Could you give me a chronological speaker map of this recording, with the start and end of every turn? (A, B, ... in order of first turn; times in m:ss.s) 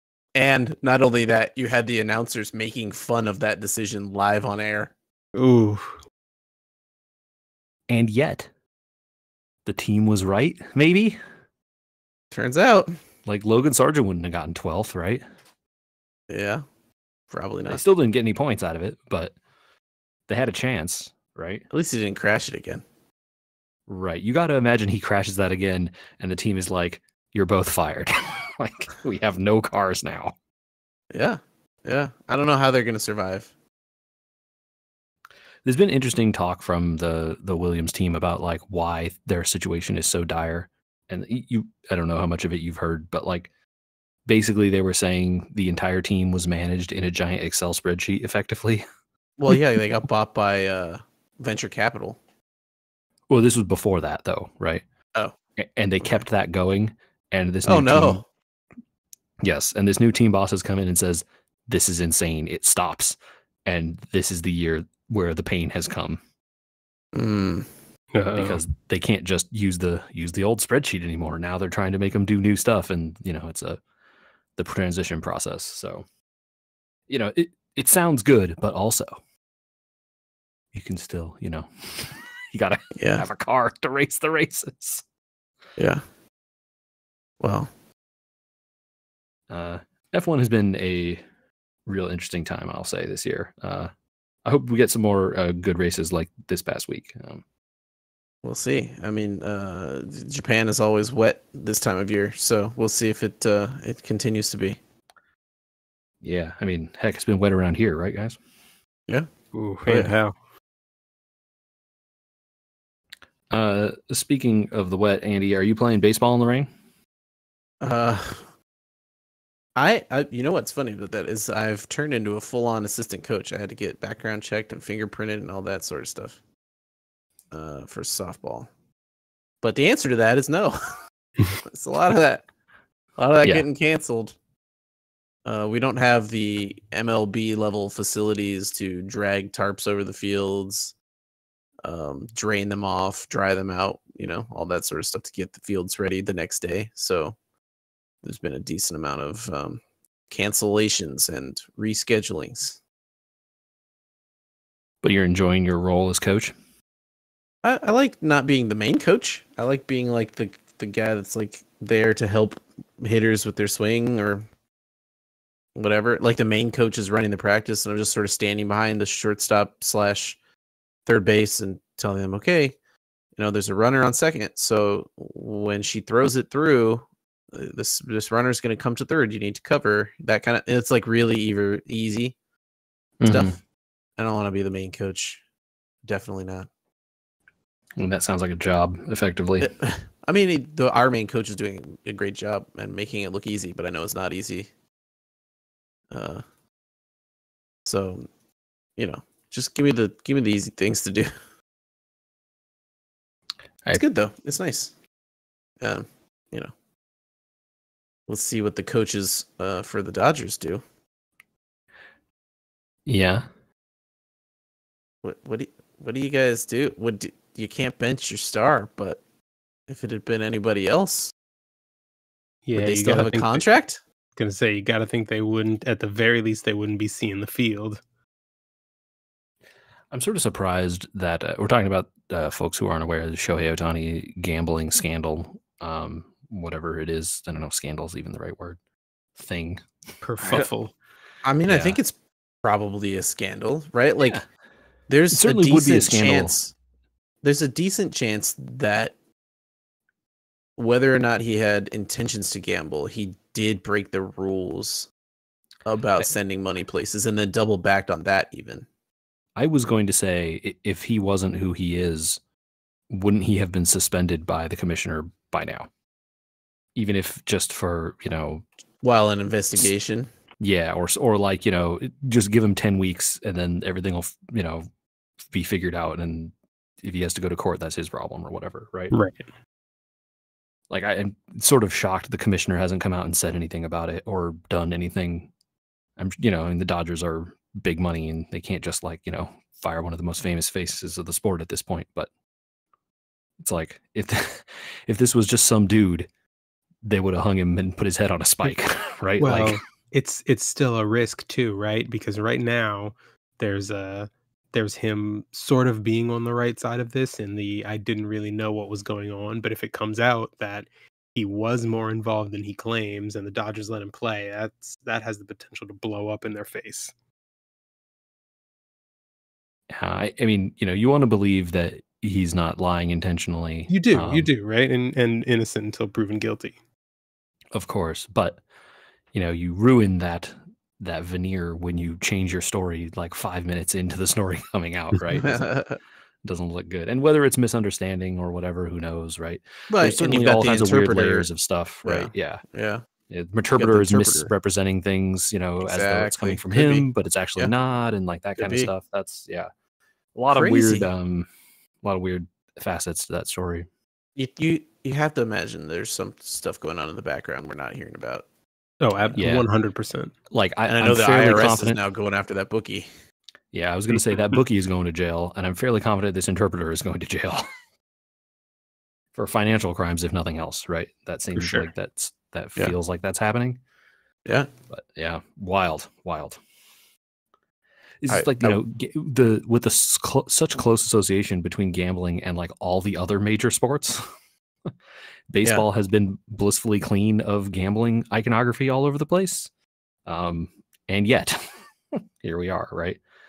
0:00.4-0:04.9 A
0:05.4-0:06.0 B
0:07.9-0:08.5 C
0:09.6-0:11.2 C
0:12.3-0:12.9 A
0:13.3-0:15.2 C
0:16.3-0:16.6 A
0:17.3-0:17.8 A
0:17.7-0:19.4 C
0:20.3-0:21.6 C
0:21.7-0:22.8 A
0:23.9-0:30.3 C
0:31.1-0:33.5 A
0:35.6-0:43.5 C
0:44.3-0:48.8 C
0:49.4-0:52.2 A
0:53.3-0:54.8 C
0:55.6-0:58.2 C
0:57.7-0:58.2 A
0:59.4-1:06.2 C
1:07.1-1:07.7 A
1:08.1-1:08.6 B
1:08.3-1:13.8 C
1:14.6-1:16.0 C
1:17.1-1:19.1 C
1:20.7-1:25.0 C
1:23.0-1:23.3 A
1:25.8-1:26.0 A
1:27.4-1:27.7 A
1:29.5-1:31.2 C
1:31.9-1:33.9 C
1:34.4-1:37.4 C
1:38.4-1:44.8 A
1:46.2-1:48.4 C
1:49.5-1:50.3 B
1:49.9-1:50.1 A
1:53.5-1:56.7 C
1:57.8-1:58.4 A
1:59.8-2:06.4 A
2:07.5-2:08.7 A
2:09.6-2:11.0 A
2:11.6-2:12.5 A
2:13.2-2:14.4 A
2:15.4-2:20.9 A
2:21.8-2:27.4 A
2:28.2-2:32.8 A
2:35.0-2:36.5 C
2:37.6-2:44.4 A
2:45.8-2:50.4 A
2:51.1-2:52.8 A
2:53.4-3:02.4 A
3:03.2-3:03.6 C
3:03.3-3:03.6 A
3:04.2-3:05.4 A
3:06.1-3:06.7 A
3:08.0-3:09.7 C
3:09.6-3:14.7 A
3:16.1-3:16.4 A
3:17.9-3:18.3 A
3:19.0-3:21.3 A
3:23.9-3:24.9 A
3:25.8-3:26.7 A
3:28.3-3:30.8 A
3:33.1-3:33.5 C
3:35.2-3:39.2 A
3:39.9-3:41.3 A
3:42.7-3:43.6 B
3:42.8-3:44.0 A
3:44.4-3:48.0 B
3:50.1-3:58.8 C
3:59.4-3:59.9 C
4:00.2-4:00.9 B
4:00.4-4:00.7 A
4:01.4-4:04.4 A
4:01.7-4:02.0 C
4:05.1-4:06.7 A
4:05.3-4:06.5 C
4:07.4-4:09.1 A
4:10.8-4:15.1 A
4:15.9-4:18.9 A
4:19.6-4:22.4 C
4:23.1-4:25.9 C
4:27.0-4:28.6 C
4:29.0-4:30.3 A
4:30.6-4:34.9 C
4:35.5-4:39.1 C
4:39.1-4:39.4 B
4:40.9-4:45.5 C
4:46.2-4:52.3 C
4:53.6-4:56.3 C
4:57.0-4:59.8 C
4:59.4-5:17.1 B
5:19.9-5:24.5 C
5:23.9-5:26.8 B
5:27.7-5:28.6 C
5:29.3-5:35.8 C
5:35.3-5:36.0 A
5:36.4-5:42.6 C
5:39.9-5:41.5 A
5:42.0-5:43.0 A
5:43.3-5:49.7 C
5:43.8-5:44.5 A
5:45.8-5:47.7 A
5:48.6-5:48.9 A
5:50.4-5:51.5 C
5:50.5-5:51.1 A
5:52.0-5:53.9 C
5:54.4-5:58.4 A
5:59.0-6:00.3 B
5:59.4-5:59.7 C
6:00.5-6:02.0 C
6:00.9-6:03.1 A
6:03.7-6:07.7 C
6:09.4-6:13.8 C
6:11.6-6:11.9 B
6:14.9-6:16.6 C
6:18.2-6:24.2 C
6:18.3-6:18.8 A
6:25.5-6:29.7 C
6:30.3-6:33.2 C